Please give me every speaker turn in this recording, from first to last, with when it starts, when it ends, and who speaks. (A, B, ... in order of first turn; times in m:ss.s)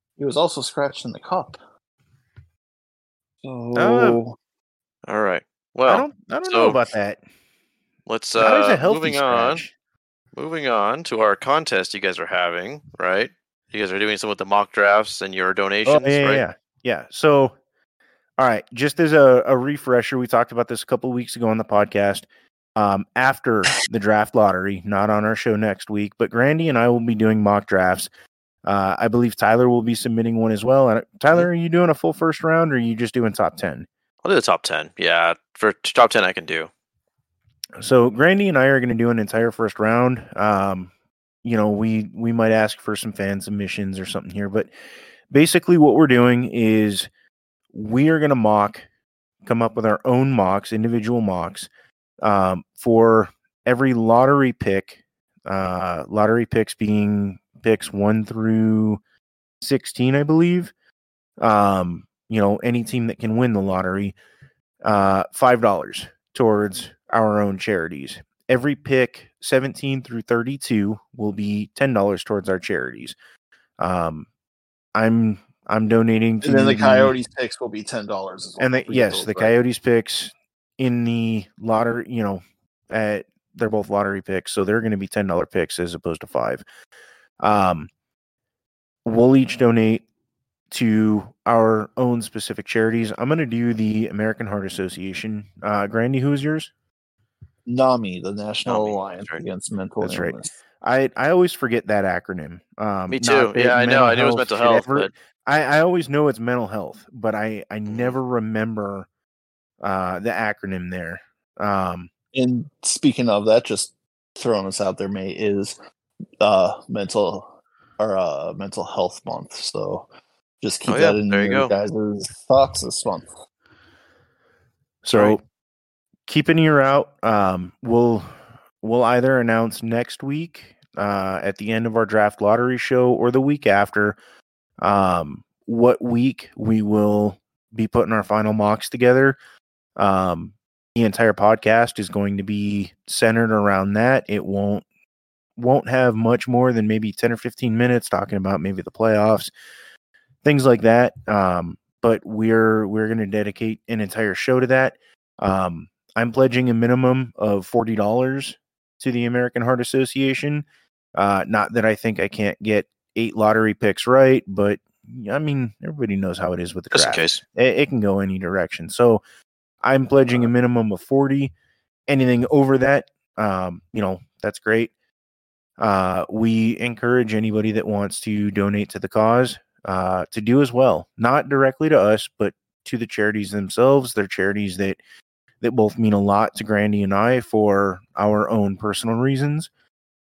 0:00.2-0:01.6 A
0:03.4-0:04.4 A
0:03.8-0:04.2 B
0:05.1-0:06.8 C
0:05.9-0:07.2 B
0:08.1-0:09.6 C
0:08.4-0:09.7 B
0:10.4-0:16.4 C
0:15.9-0:17.6 B
0:18.4-0:28.1 B
0:28.6-0:33.9 B
0:34.2-0:36.7 C
0:37.8-0:40.9 B
0:41.4-0:44.7 B
0:45.3-0:47.1 B
0:47.7-0:48.9 B
0:49.4-0:51.7 B
0:52.2-0:59.0 B
0:59.6-1:00.7 B
1:01.4-1:04.2 B
1:04.8-1:13.2 B
1:13.8-1:14.3 B
1:15.0-1:17.2 B
1:16.4-1:19.6 A
1:18.6-1:26.6 B
1:27.4-1:27.9 B
1:29.0-1:30.0 B
1:30.7-1:36.7 B
1:37.7-1:40.6 A
1:38.7-1:39.4 C
1:40.0-1:49.1 B
1:43.1-1:45.1 C
1:47.9-1:48.2 C
1:49.8-1:52.1 B
1:52.3-1:55.8 A
1:56.4-2:00.1 A
2:00.6-2:03.3 A
2:00.9-2:01.7 C
2:05.0-2:05.4 B
2:06.3-2:14.2 B
2:14.8-2:19.4 B
2:20.0-2:24.8 B
2:25.6-2:29.5 B
2:30.4-2:49.2 B
2:46.9-2:47.4 C
2:49.8-2:51.5 B
2:52.1-2:54.9 B
2:55.8-3:05.0 B
3:05.6-3:09.7 B